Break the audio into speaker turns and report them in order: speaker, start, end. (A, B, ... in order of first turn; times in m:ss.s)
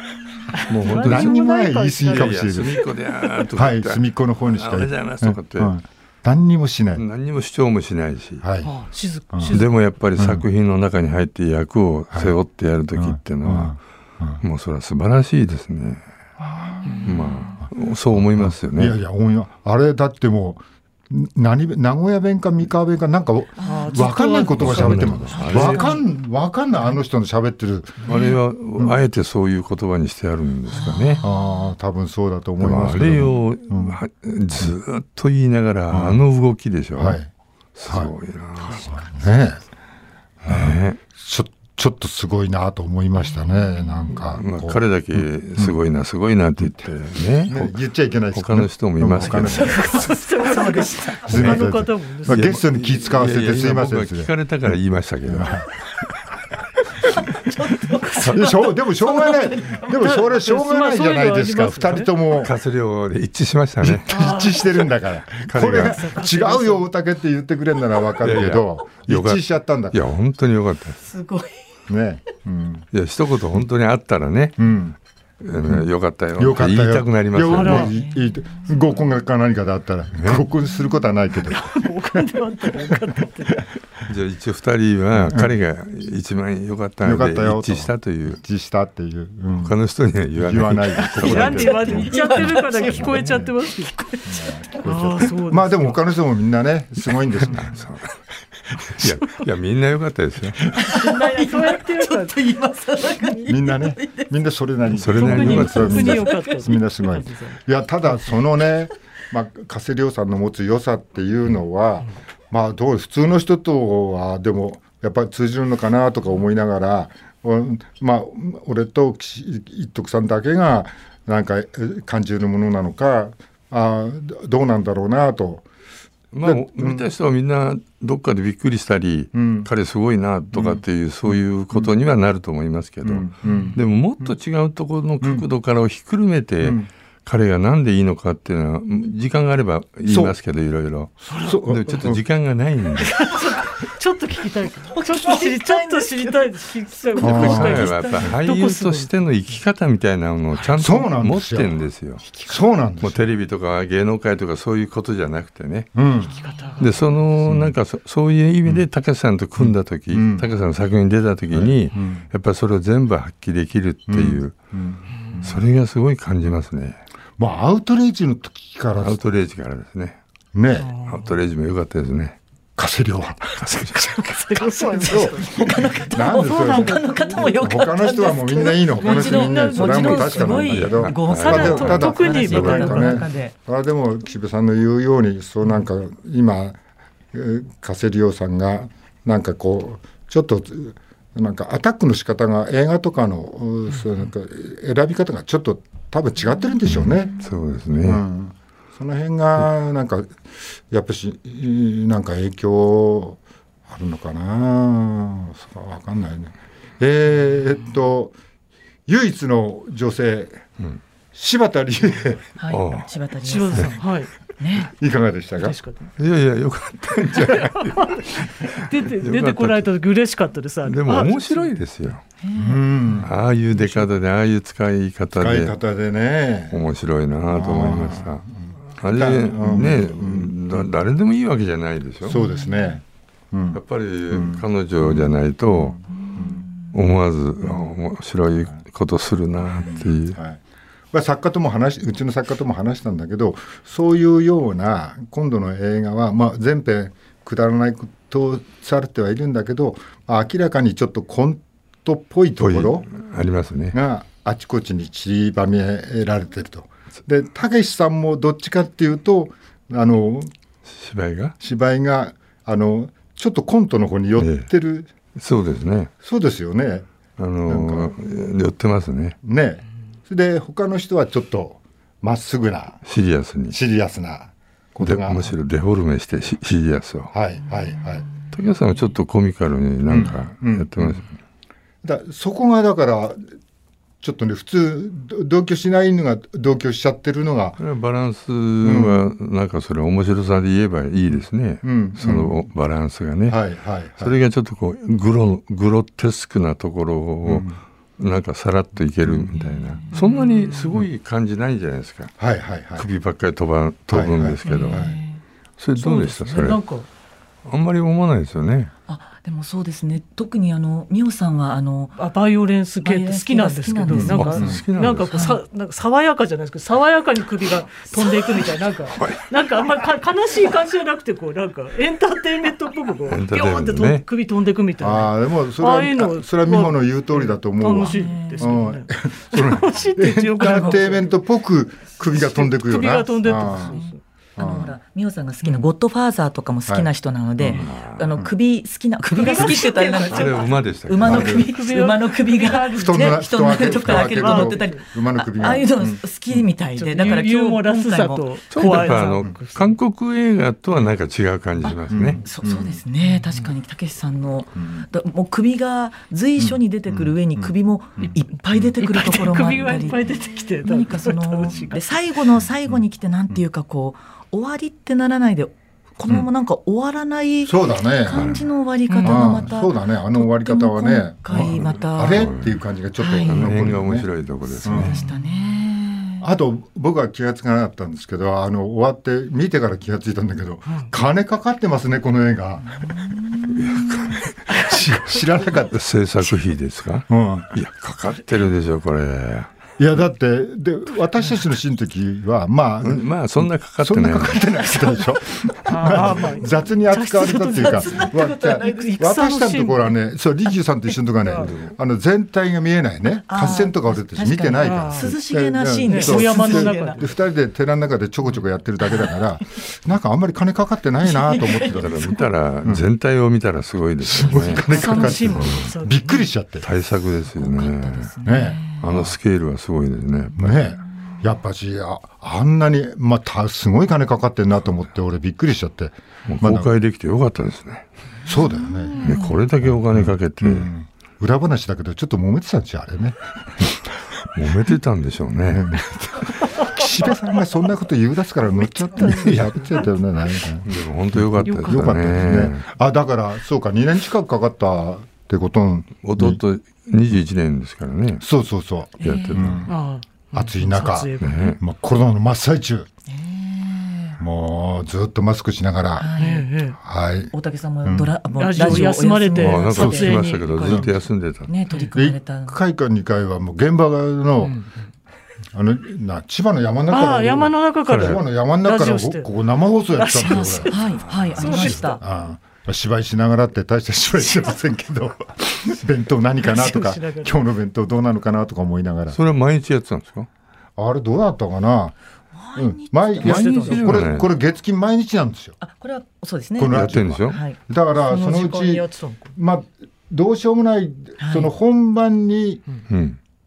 0:00.5-0:02.5 A
0:00.7-0:01.4 B
0:00.9-0:02.8 C
0:02.1-0:05.7 B
0:03.5-0:07.0 C
0:07.0-0:08.4 B
0:08.4-0:08.7 C
0:08.6-0:09.7 A
0:09.3-0:09.6 C
0:09.5-0:13.8 B
0:10.2-0:10.4 C
0:12.9-0:14.4 C
0:14.4-0:16.0 B
0:16.4-0:17.2 C
0:17.0-0:19.0 B
0:18.2-0:28.1 C
0:23.6-0:24.1 D
0:23.6-0:25.8 A
0:24.6-0:25.9 B
0:25.3-0:26.0 D
0:28.0-0:31.2 B
0:30.7-0:31.6 D
0:31.2-0:34.0 C
0:32.6-0:37.2 B
0:35.9-0:36.2 C
0:37.0-0:37.3 C
0:37.8-0:38.9 B
0:37.9-0:38.1 C
0:38.6-0:38.9 A
0:38.9-0:39.6 C
0:40.4-0:45.8 C
0:40.5-0:41.0 B
0:43.8-0:44.1 D
0:44.3-0:47.8 B
0:47.5-0:50.1 C
0:48.3-0:49.9 B
0:49.7-0:51.3 D
0:49.7-0:52.5 A
0:51.2-0:54.3 C
0:51.3-0:51.7 B
0:52.2-0:55.7 B
0:55.3-0:55.7 C
0:57.5-1:00.1 D
0:58.2-1:02.5 C
0:59.9-1:02.1 A
1:02.3-1:04.1 B
1:03.8-1:10.0 C
1:04.1-1:04.9 A
1:05.5-1:06.1 B
1:05.6-1:06.9 A
1:08.2-1:11.0 B
1:11.0-1:11.6 D
1:11.9-1:12.9 C
1:12.9-1:14.6 B
1:14.6-1:15.0 C
1:15.4-1:17.9 B
1:16.4-1:23.1 C
1:17.5-1:17.9 A
1:17.8-1:18.8 D
1:20.2-1:20.5 B
1:21.5-1:23.6 A
1:24.0-1:28.4 B
1:25.2-1:25.5 C
1:27.0-1:29.8 C
1:29.6-1:32.2 B
1:30.4-1:32.4 C
1:31.2-1:36.0 A
1:31.7-1:33.3 D
1:32.8-1:33.4 B
1:33.1-1:33.5 C
1:33.9-1:34.5 D
1:34.3-1:37.7 C
1:37.4-1:38.1 B
1:38.7-1:40.7 B
1:40.8-1:44.3 D
1:40.9-1:42.4 A
1:43.5-2:05.7 C
1:44.9-1:46.2 B
1:45.1-1:47.6 A
1:46.1-1:46.7 D
2:06.3-2:23.2 B
2:06.4-2:07.1 C
2:09.3-2:09.7 C
2:10.5-2:11.9 C
2:13.0-2:14.3 C
2:15.2-2:15.5 C
2:16.6-2:16.9 C
2:20.0-2:20.4 C
2:21.3-2:21.6 A
2:21.3-2:22.2 C
2:23.0-2:29.1 A
2:24.9-2:28.3 D
2:27.2-2:27.9 C
2:27.2-2:32.2 B
2:30.8-2:31.8 C
2:32.4-2:33.2 C
2:33.0-2:35.9 B
2:36.0-2:36.3 C
2:36.2-2:37.0 A
2:36.4-2:36.8 D
2:36.8-2:44.6 B
2:37.4-2:37.8 C
2:39.6-2:40.5 C
2:41.5-2:42.2 C
2:44.1-2:45.6 C
2:45.4-2:47.0 B
2:47.4-2:49.2 C
2:49.0-2:50.2 B
2:50.5-2:50.9 C
2:50.8-2:51.3 A
2:51.1-2:52.4 B
2:52.8-2:54.3 C
2:53.6-2:54.2 B
2:54.3-2:57.6 A
2:54.5-3:03.5 D
2:54.9-3:06.8 C
2:58.8-3:03.2 A
3:00.7-3:03.2 B
3:07.3-3:17.5 C
3:16.9-3:18.2 B
3:18.0-3:28.4 C
3:29.1-3:30.6 C
3:31.3-3:32.5 C
3:32.6-3:34.0 D
3:32.7-3:33.1 B
3:33.4-3:34.3 A
3:34.6-3:34.9 D
3:34.8-3:35.8 C
3:35.6-3:36.1 A
3:36.2-3:38.0 B
3:37.4-3:37.7 C
3:37.5-3:41.7 A
3:38.6-3:39.9 B
3:40.8-3:42.2 B
3:42.4-3:43.2 D
3:42.6-3:43.3 C
3:43.2-3:45.7 B
3:45.4-3:46.8 C
3:46.7-3:48.4 B
3:47.5-3:50.8 C
3:49.0-3:52.4 B
3:52.2-3:56.6 C
3:52.3-3:53.0 D
3:53.7-3:56.0 B
3:56.4-3:56.9 D
3:56.9-4:00.4 B
3:57.6-3:57.9 C
3:59.8-4:00.6 C
4:01.1-4:13.1 C
4:12.6-4:14.0 B
4:13.9-4:20.5 C
4:20.9-4:21.6 B
4:21.6-4:25.1 C
4:24.4-4:24.7 B
4:25.4-4:26.1 B
4:26.2-4:27.1 C
4:27.4-4:29.4 B
4:27.7-4:28.2 C
4:29.4-4:33.0 C
4:33.0-4:33.8 B
4:33.7-4:35.5 C
4:35.0-4:37.3 B
4:37.3-4:38.3 C
4:38.5-4:41.4 B
4:40.1-4:41.2 C
4:42.0-4:43.5 C
4:44.2-4:47.8 C
4:47.8-4:53.6 B
4:48.8-4:49.3 C
4:51.3-4:52.6 C
4:53.5-4:54.4 C
4:54.2-5:02.4 B
4:57.4-4:57.8 C
4:59.2-4:59.6 C
4:59.6-5:00.2 D
5:00.1-5:00.7 A
5:02.4-5:03.1 C
5:03.0-5:05.1 B
5:04.1-5:05.2 C
5:04.7-5:05.0 A
5:04.7-5:05.4 D
5:05.8-5:06.8 B
5:06.0-5:07.1 A
5:07.6-5:08.9 B
5:09.1-5:12.2 D
5:12.2-5:31.3 A
5:13.0-5:14.8 D
5:14.1-5:14.8 C
5:14.2-5:15.5 B
5:15.3-5:15.6 D
5:19.1-5:19.5 B
5:23.2-5:24.2 B
5:25.0-5:34.0 C
5:28.0-5:28.9 D
5:30.6-5:31.1 D
5:32.3-5:34.2 A
5:33.6-5:49.2 D
5:34.6-5:35.0 C
5:36.9-5:37.9 C
5:37.8-5:38.4 B
5:39.3-5:45.0 A
5:40.2-5:41.7 B
5:41.3-5:41.6 C
5:42.9-5:46.6 C
5:47.0-5:49.9 A
5:48.7-5:52.4 B
5:51.8-6:12.5 D
5:52.1-5:53.0 C
5:54.8-5:55.1 C
5:56.6-5:58.9 C
5:59.0-6:02.3 A
6:07.6-6:08.6 C
6:08.3-6:08.7 B
6:09.1-6:09.6 A
6:09.2-6:14.3 C
6:11.5-6:12.8 B
6:13.2-6:13.9 D
6:13.4-6:15.2 B
6:14.7-6:16.4 D
6:14.8-6:15.2 C
6:16.4-6:26.0 C
6:23.7-6:24.8 B
6:25.9-6:29.7 B
6:27.3-6:27.7 C
6:30.0-6:53.1 C
6:33.0-6:34.8 B
6:35.9-6:40.1 A
6:37.6-6:39.2 D
6:41.4-6:41.8 A
6:41.6-6:41.9 B
6:43.5-6:47.3 D
6:44.8-6:45.4 A
6:46.1-6:47.3 A
6:51.2-6:52.4 D
6:51.8-6:55.9 B
6:54.3-6:56.9 C
6:54.4-6:55.3 D
6:54.8-6:56.5 A
6:56.8-6:58.3 B
6:57.5-6:59.0 D
6:58.4-6:59.4 C
6:59.0-7:01.0 B
7:00.6-7:06.9 C
7:06.5-7:08.1 B
7:08.5-7:14.0 C
7:08.7-7:09.6 D
7:09.2-7:10.9 B
7:14.5-7:16.1 B
7:15.7-7:26.6 C
7:19.1-7:20.0 A
7:19.2-7:19.7 B
7:20.8-7:22.8 B
7:21.6-7:22.1 A
7:26.2-7:28.4 B
7:28.4-7:29.9 C
7:29.2-7:29.8 D
7:29.2-7:29.8 B
7:29.9-7:31.8 A
7:30.5-7:33.1 C
7:31.4-7:31.8 B
7:33.3-7:34.4 D
7:34.4-7:36.3 C
7:36.2-7:36.7 D
7:36.4-7:37.0 A
7:37.0-7:37.5 C
7:37.5-7:40.4 D
7:38.0-7:39.0 C
7:38.6-7:41.1 A
7:39.6-7:41.7 B
7:40.0-7:41.1 C
7:41.7-7:42.8 D
7:42.1-7:44.8 C
7:44.6-7:44.9 A
7:45.7-7:59.4 C
7:47.1-7:49.5 A
7:48.1-7:48.4 B
7:50.2-7:52.2 A
7:50.5-7:52.2 D
7:56.6-7:57.6 A
7:59.3-8:00.5 B
8:01.0-8:02.2 C
8:02.6-8:03.6 D
8:02.8-8:05.8 C
8:03.4-8:04.5 B
8:03.4-8:04.2 A
8:05.8-8:07.8 D
8:06.8-8:12.8 C
8:06.9-8:07.6 B
8:08.3-8:09.5 A
8:11.4-8:11.7 D
8:13.1-8:13.4 B